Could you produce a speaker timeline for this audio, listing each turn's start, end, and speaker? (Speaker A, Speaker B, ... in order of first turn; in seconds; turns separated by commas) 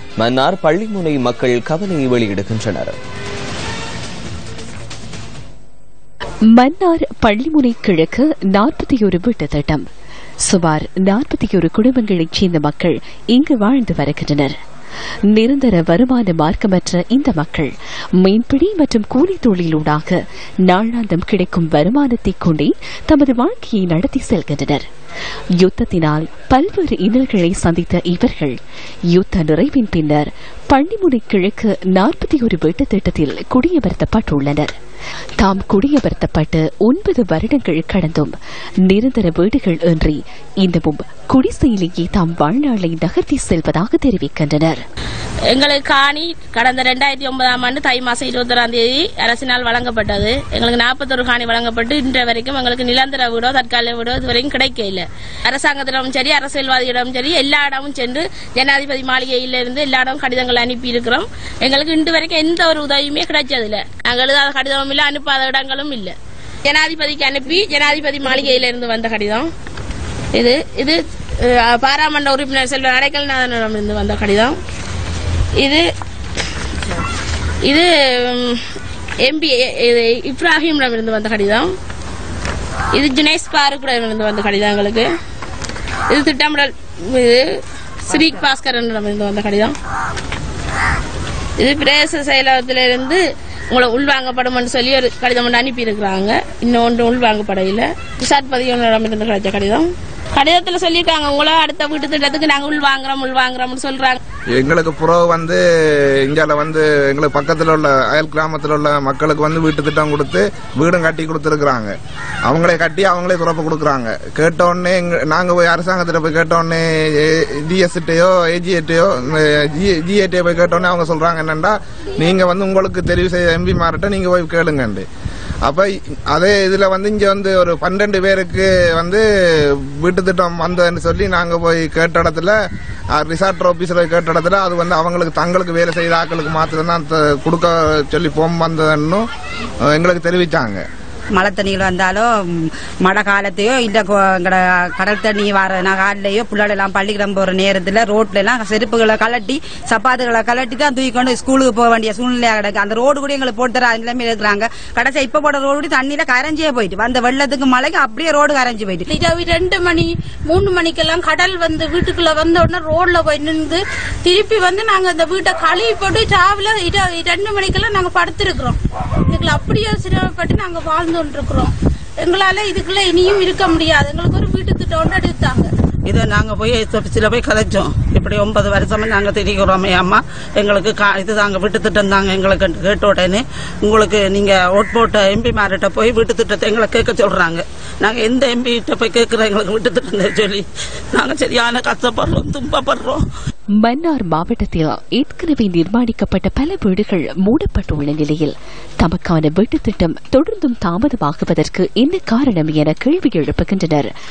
Speaker A: 0.2-2.9, Speaker B: 6.5-9.8, Speaker B: 10.4-14.6, Speaker B: 15.3-24.9, Speaker B: 25.6-28.6, Speaker B: 29.1-34.7, Speaker B: 35.4-38.3, Speaker B: 38.9-44.8, Speaker C: 45.5-66.2, Speaker C: 66.7-69.5, Speaker C: 70.3-74.6, Speaker C: 75.6-75.8, Speaker C: 77.7-78.6, Speaker C: 79.2-81.7, Speaker C: 82.9-85.1, Speaker C: 86.1-87.5, Speaker C: 88.1-89.7, Speaker C: 91.6-104.2, Speaker D: 104.5-105.6, Speaker D: 106.3-111.9, Speaker D: 112.5-125.0, Speaker D: 125.7-132.6, Speaker D: 133.1-139.2, Speaker D: 139.9-140.8, Speaker E: 141.3-159.1, Speaker F: 159.1-168.8, Speaker F: 169.3-175.7, Speaker G: 176.1-193.2, Speaker B: 193.8-204.1